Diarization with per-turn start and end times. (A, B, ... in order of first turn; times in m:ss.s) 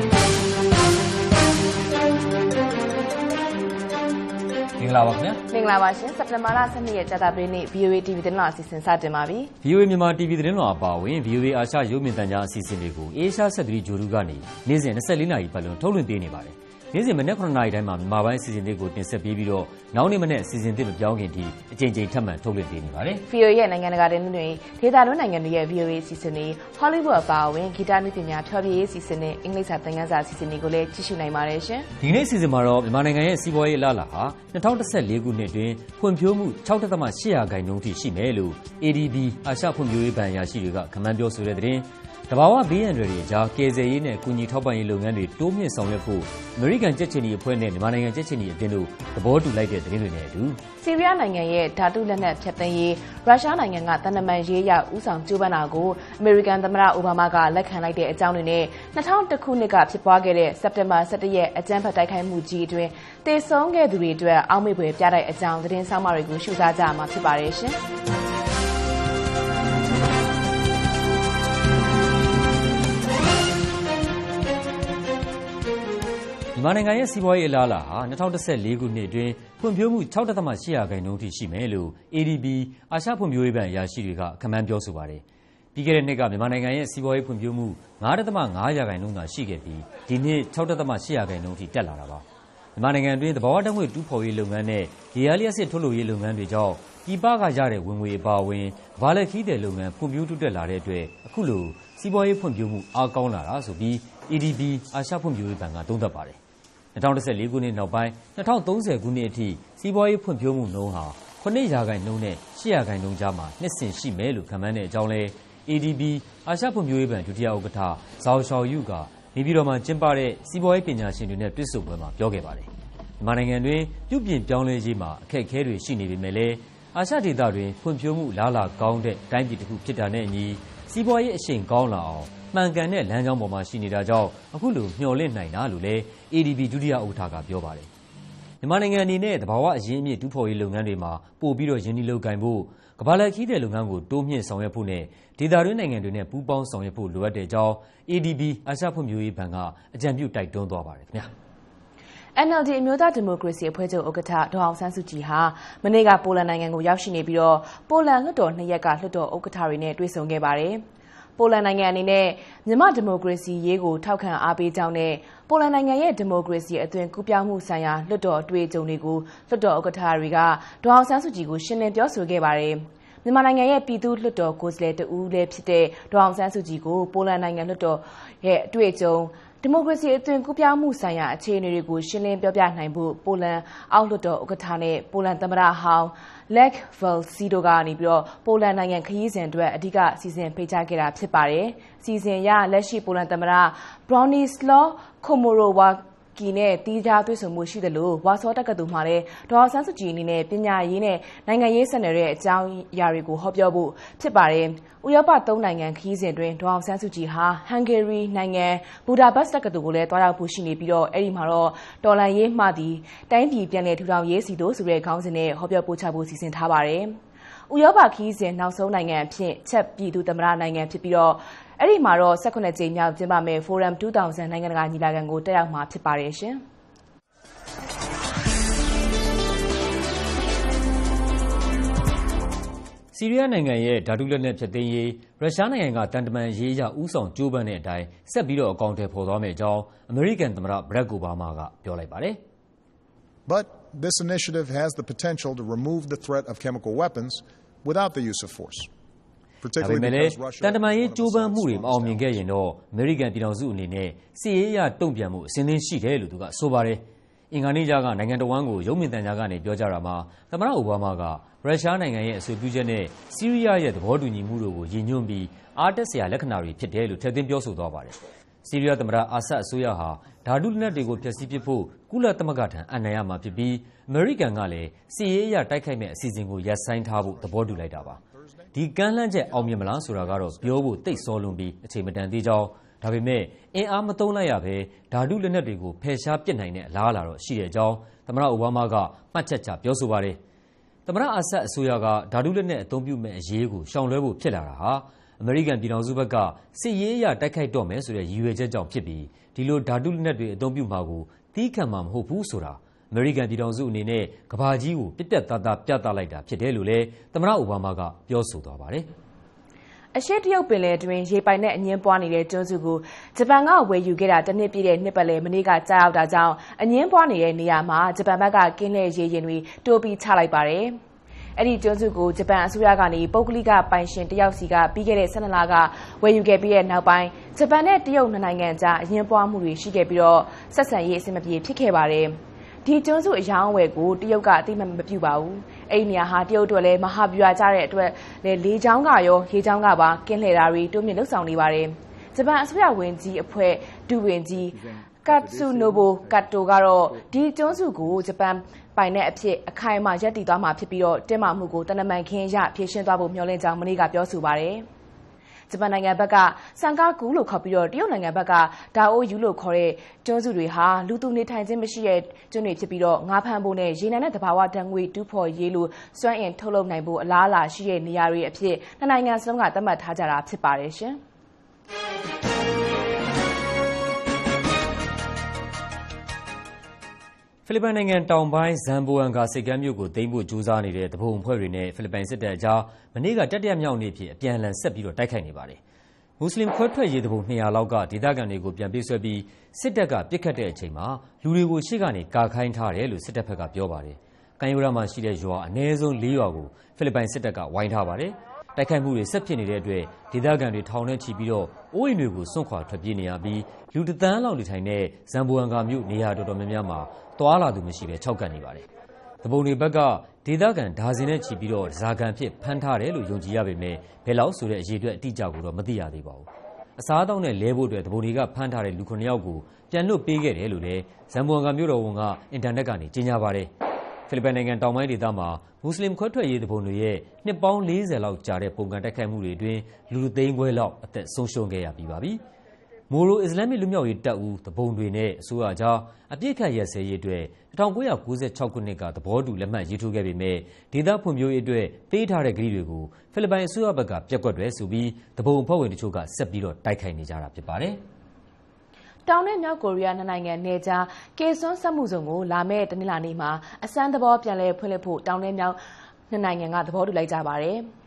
0:04.8-0:05.4 A
0:05.5-0:09.5 B
0:09.6-0:23.2 A
0:23.3-0:31.9 B
0:32.0-0:50.6 A
0:50.8-1:07.8 B
1:16.5-1:25.2 A
1:25.7-1:32.2 A
1:32.8-1:46.4 A
1:46.9-2:02.7 A
2:03.2-2:17.9 A
2:18.6-2:31.3 A
2:32.4-2:40.8 B
2:41.4-3:37.2 B
3:37.7-3:46.6 B
3:53.1-4:02.4 A
4:03.4-4:08.9 C
4:09.6-4:12.4 C
4:09.8-4:38.2 A
4:30.9-4:31.7 C
4:36.9-4:38.7 C
4:38.7-4:50.4 A
4:39.4-4:41.6 C
4:51.0-5:09.1 A
5:10.1-5:21.0 B
5:21.6-5:54.8 B
5:55.7-6:11.2 B
6:17.6-6:25.8 A
6:26.4-6:48.9 A
6:49.4-7:03.7 A
7:04.3-7:12.4 A
7:13.1-7:28.0 A
7:29.2-7:35.8 B
7:36.3-7:37.9 B